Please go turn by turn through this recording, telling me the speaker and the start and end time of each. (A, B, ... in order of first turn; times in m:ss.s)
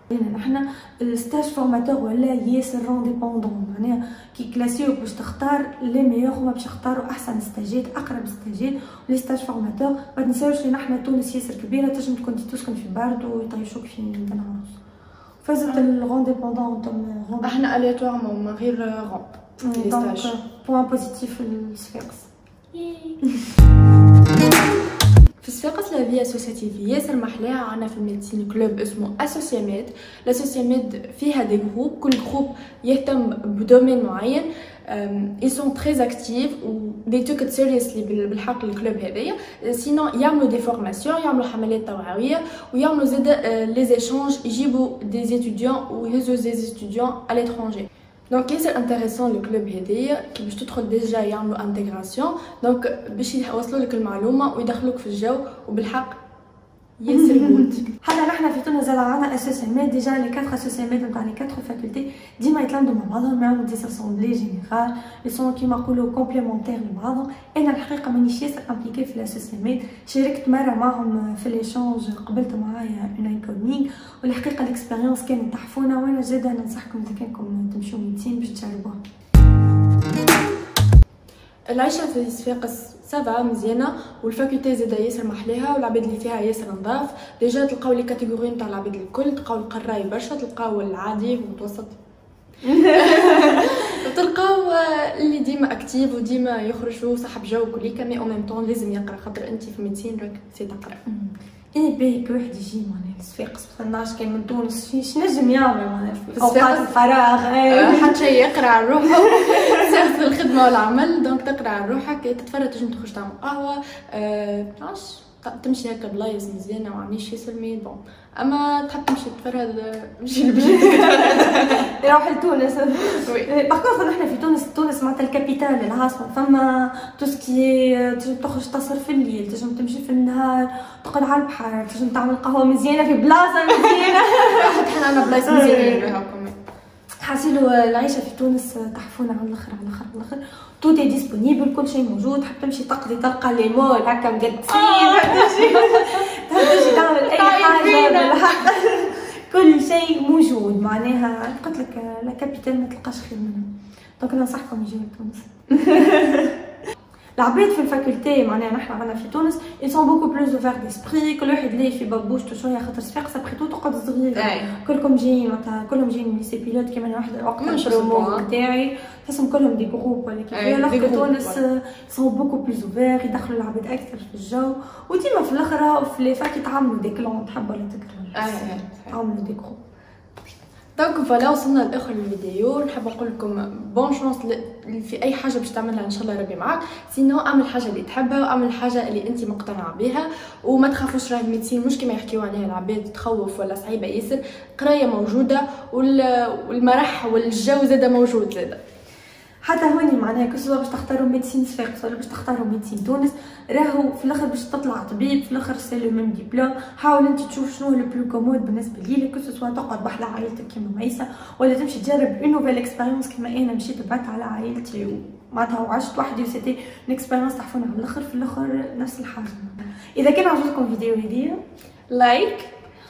0:00.1-0:14.8 A
0:15.4-0:17.6 A
0:17.4-0:20.3 B
0:19.6-0:22.3 A
0:22.8-0:23.1 B
0:25.4-0:56.2 B
0:57.0-0:57.9 B
0:57.4-1:19.0 A
1:21.7-1:32.0 B
1:32.7-1:33.8 A
1:32.8-1:41.0 B
1:41.1-1:48.4 A
1:46.3-1:46.9 B
1:47.7-2:01.9 B
1:49.6-1:49.9 A
2:00.8-2:16.1 A
2:03.2-2:03.5 B
2:14.5-2:16.6 B
2:17.2-2:33.7 A
2:24.7-2:28.7 B
2:34.2-2:36.5 A
2:37.4-2:59.8 A
2:44.4-2:44.7 B
2:47.6-2:48.5 B
2:50.5-2:51.6 B
2:58.4-2:59.2 B
3:01.0-3:18.8 B
3:19.6-3:41.6 A
3:42.1-3:42.7 B